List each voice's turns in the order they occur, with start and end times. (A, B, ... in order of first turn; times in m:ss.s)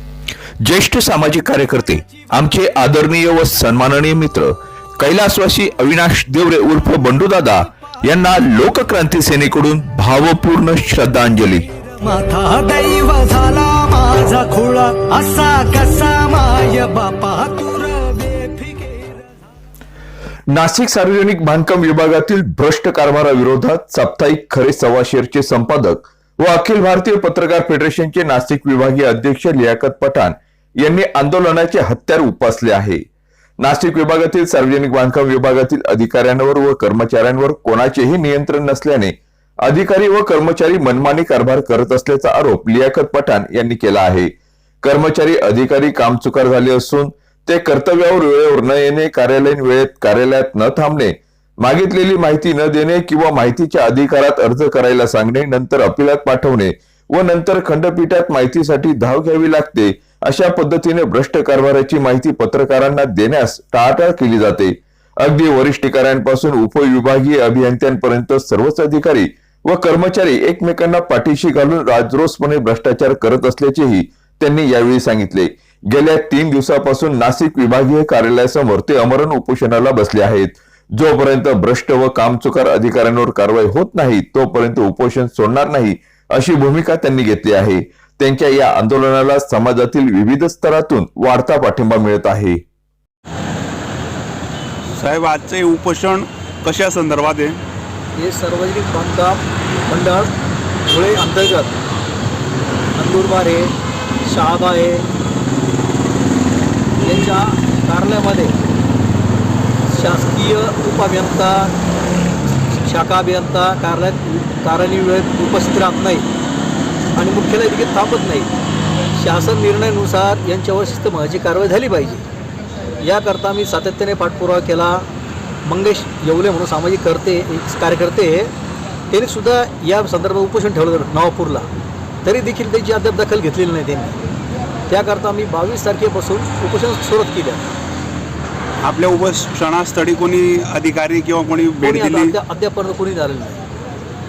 0:00.6-0:11.7 A
0:11.9-0:19.3 B
0:20.5-0:33.0 A
0:33.6-0:44.3 A
0:44.8-1:32.6 A
1:35.0-1:37.6 C
1:38.2-1:40.3 D
1:40.9-1:41.8 D
1:43.0-1:43.7 D
1:44.2-1:45.0 D
1:47.0-1:48.6 D
1:49.9-1:51.7 D
1:52.7-1:56.2 D
1:57.2-1:58.5 D
1:59.2-2:02.2 D
2:03.0-2:05.0 D
2:05.6-2:08.5 D
2:09.1-2:11.7 D
2:12.2-2:14.1 D
2:14.9-2:17.6 D
2:18.8-2:22.3 C
2:21.8-2:23.6 D